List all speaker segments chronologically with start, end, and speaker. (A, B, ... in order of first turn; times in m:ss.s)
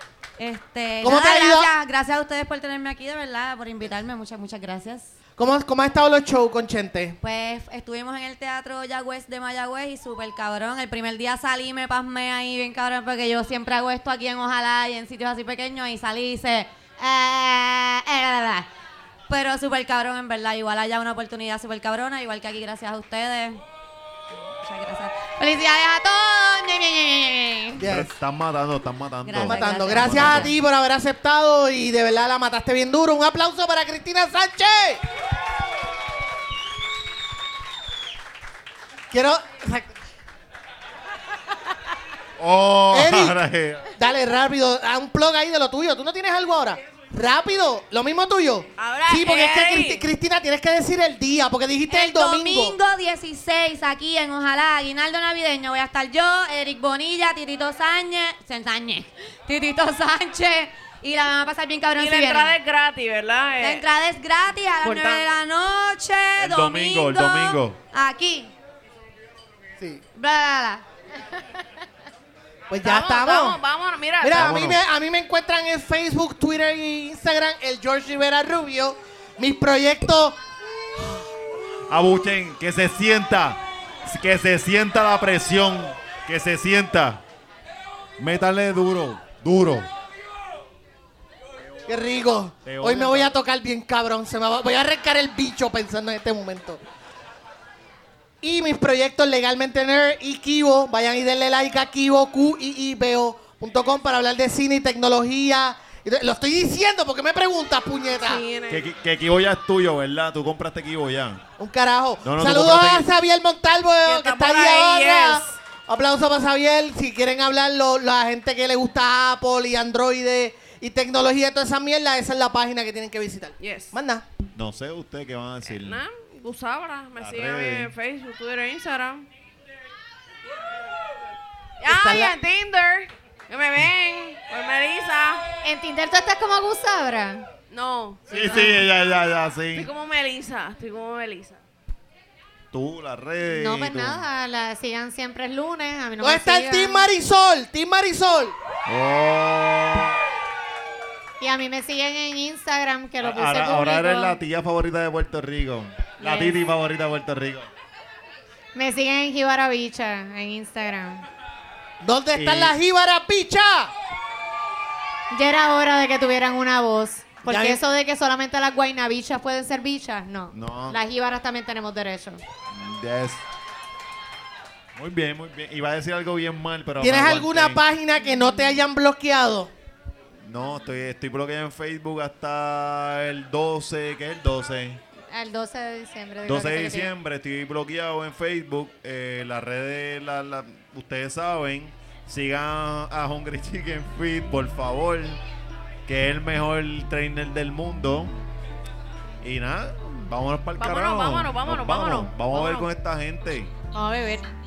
0:00.4-0:05.1 A
0:01.0-0:01.7 B
0:05.4-0:07.2 B
0:07.2-0:18.7 A
0:19.3-0:23.6 A
0:24.6-0:26.4 A
0:25.5-0:27.8 C
0:27.8-0:28.1 B
0:27.8-0:30.5 D
0:29.2-0:30.5 A
0:29.4-0:35.0 B
0:39.1-0:39.9 B
0:42.4-0:43.9 D
0:42.9-0:43.4 B
0:44.0-0:52.8 B
0:48.8-0:50.1 E
0:51.9-1:02.5 A
1:02.0-1:03.9 E
1:03.6-1:08.5 A
1:04.8-1:05.2 E
1:06.4-1:07.8 D
1:09.8-1:10.0 B
1:10.1-1:10.8 A
1:12.7-1:13.6 B
1:12.8-1:14.5 E
1:14.2-1:20.4 B
1:14.3-1:14.8 D
1:21.9-1:27.2 D
1:28.2-1:29.9 D
1:31.9-1:36.8 B
1:32.6-1:33.4 D
1:38.4-1:48.4 B
1:48.2-1:48.9 E
1:48.7-1:51.4 D
1:51.6-2:04.2 B
1:52.2-1:53.1 D
1:54.0-1:55.5 E
2:03.6-2:03.9 E
2:04.5-2:06.0 D
2:05.6-2:09.3 E
2:07.2-2:07.9 D
2:11.8-2:15.4 E
2:11.8-2:12.3 B
2:15.6-2:17.4 C
2:17.7-2:18.3 E
2:18.3-2:19.9 D
2:18.3-2:18.7 C
2:19.7-2:21.6 E
2:22.7-2:24.2 D
2:23.4-2:27.1 C
2:26.2-2:28.5 B
2:28.8-2:30.2 D
2:31.4-2:34.4 C
2:33.2-2:37.7 D
2:36.2-2:36.6 C
2:38.7-2:41.2 C
2:42.0-2:43.9 B
2:42.3-2:42.8 D
2:45.3-2:52.4 C
2:47.5-2:47.8 B
2:50.5-2:51.0 D
2:52.7-2:53.4 D
2:55.0-2:57.8 D
2:57.0-2:59.7 B
3:00.4-3:05.0 D
3:05.3-3:07.1 C
3:06.4-3:15.4 D
3:16.0-3:18.3 D
3:19.4-3:23.7 D
3:20.8-3:22.8 E
3:23.9-3:24.4 C